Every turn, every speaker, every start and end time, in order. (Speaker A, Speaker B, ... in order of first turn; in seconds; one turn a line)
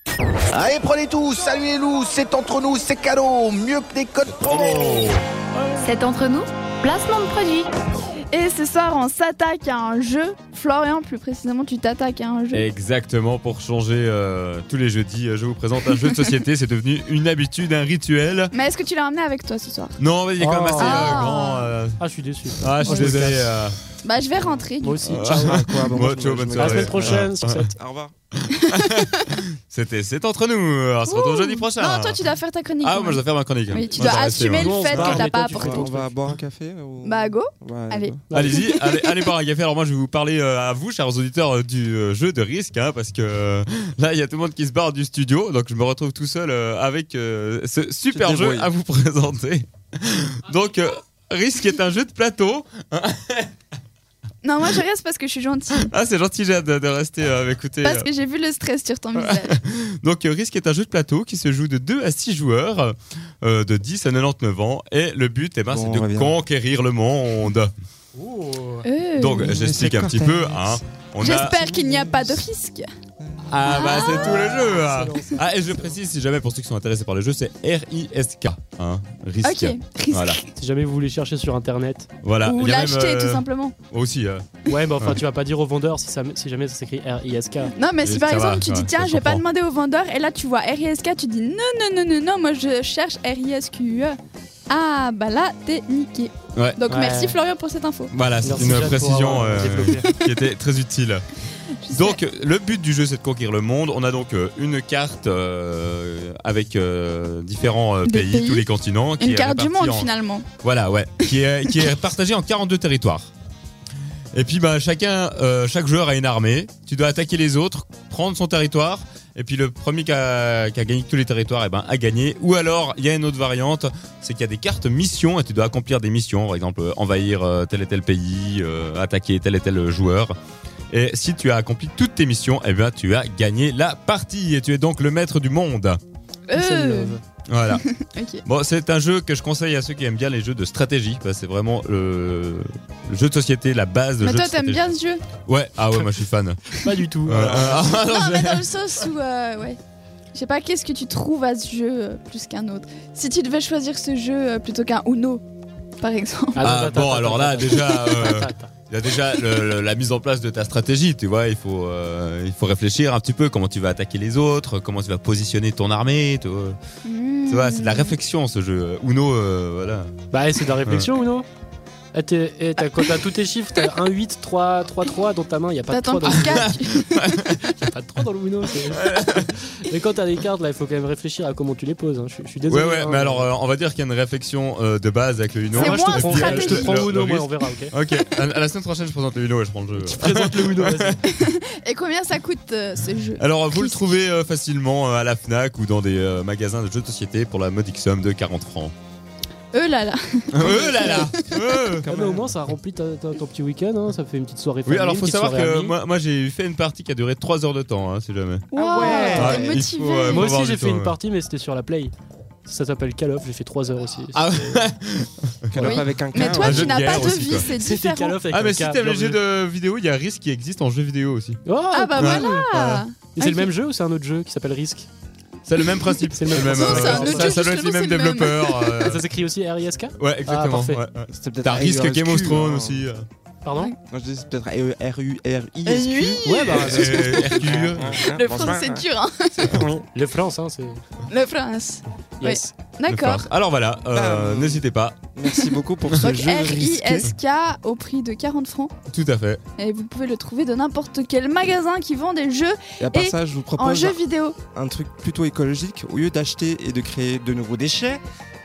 Speaker A: 0.5-5.1
Speaker B: 4.4-5.2
Speaker C: 5.8-7.7
Speaker D: 8.3-12.7
Speaker B: 12.5-18.5
Speaker D: 18.5-20.0
Speaker B: 20.0-22.0
Speaker E: 20.4-21.3
Speaker D: 20.8-21.7
Speaker E: 22.0-23.2
Speaker B: 22.6-23.8
Speaker D: 22.8-23.1
Speaker D: 24.0-25.1
Speaker E: 24.8-25.9
Speaker B: 25.1-27.7
Speaker F: 25.4-28.1
Speaker E: 26.5-27.7
Speaker B: 28.3-32.2
Speaker D: 28.7-29.3
Speaker D: 31.1-35.9
Speaker B: 32.8-34.9
Speaker E: 34.5-36.1
Speaker F: 34.9-38.2
Speaker D: 37.0-39.3
Speaker B: 38.3-53.5
Speaker F: 48.1-48.7
Speaker D: 54.4-55.9
Speaker B: 55.7-58.1
Speaker D: 57.8-59.6
Speaker B: 59.1-67.7
Speaker F: 65.7-66.3
Speaker E: 68.2-68.8
Speaker D: 68.8-69.5
Speaker B: 69.2-71.7
Speaker F: 69.4-70.8
Speaker D: 71.2-72.8
Speaker F: 71.7-72.4
Speaker B: 73.5-80.4
Speaker D: 73.7-74.8
Speaker E: 74.8-75.3
Speaker D: 79.4-80.5
Speaker E: 80.6-82.1
Speaker B: 82.2-85.2
Speaker D: 82.4-83.8
Speaker E: 84.7-87.7
Speaker D: 87.7-94.2
Speaker B: 88.0-89.4
Speaker D: 94.7-98.1
Speaker E: 96.9-97.3
Speaker B: 98.1-101.3
Speaker E: 98.4-100.1
Speaker D: 101.8-102.2
Speaker B: 101.9-113.3
Speaker D: 108.0-108.7
Speaker D: 109.2-110.5
Speaker D: 111.2-111.7
Speaker B: 114.3-130.3
Speaker B: 130.9-136.0
Speaker D: 136.5-137.2
Speaker E: 136.5-137.2
Speaker B: 137.5-137.8
Speaker D: 137.7-138.4
Speaker B: 138.4-144.8
Speaker D: 144.2-145.2
Speaker B: 145.4-146.7
Speaker E: 146.8-147.7
Speaker B: 147.2-149.0
Speaker D: 147.8-149.8
Speaker D: 150.3-155.4
Speaker D: 156.0-156.7
Speaker E: 156.6-158.7
Speaker B: 156.6-166.8
Speaker D: 157.6-158.4
Speaker D: 167.0-168.2
Speaker B: 167.5-170.1
Speaker E: 170.3-171.4
Speaker B: 170.8-171.1
Speaker E: 172.1-176.6
Speaker D: 175.9-177.3
Speaker B: 176.3-177.8
Speaker E: 177.8-179.1
Speaker B: 178.7-179.5
Speaker E: 179.8-183.5
Speaker B: 182.7-191.2
Speaker D: 185.7-187.0
Speaker E: 185.8-187.9
Speaker E: 190.0-191.2
Speaker D: 191.3-194.2
Speaker B: 193.4-198.9
Speaker D: 199.7-201.5
Speaker B: 200.5-202.1
Speaker F: 202.0-202.6
Speaker E: 202.1-205.9
Speaker B: 204.8-208.7
Speaker D: 208.7-210.6
Speaker F: 208.7-209.8
Speaker E: 209.3-209.5
Speaker B: 209.3-211.1
Speaker E: 210.3-212.1
Speaker E: 212.7-214.4
Speaker B: 214.3-217.7
Speaker F: 215.7-217.1
Speaker D: 215.8-218.4
Speaker E: 217.8-219.4
Speaker B: 218.5-221.6
Speaker E: 221.7-222.3
Speaker D: 221.9-223.7
Speaker B: 222.2-223.0
Speaker E: 223.4-225.1
Speaker B: 225.7-229.2
Speaker E: 226.3-227.5
Speaker D: 226.5-228.9
Speaker E: 229.0-231.0
Speaker B: 230.2-233.3
Speaker F: 231.3-233.1
Speaker F: 234.1-239.0
Speaker D: 235.9-236.4
Speaker B: 235.9-238.2
Speaker E: 236.4-237.3
Speaker D: 238.0-239.8
Speaker E: 239.8-241.0
Speaker D: 241.3-243.5
Speaker B: 243.1-245.2
Speaker F: 244.1-244.8
Speaker F: 245.3-247.3
Speaker D: 245.5-248.9
Speaker B: 249.1-249.6
Speaker D: 249.8-254.6
Speaker F: 253.0-254.2
Speaker F: 254.7-258.2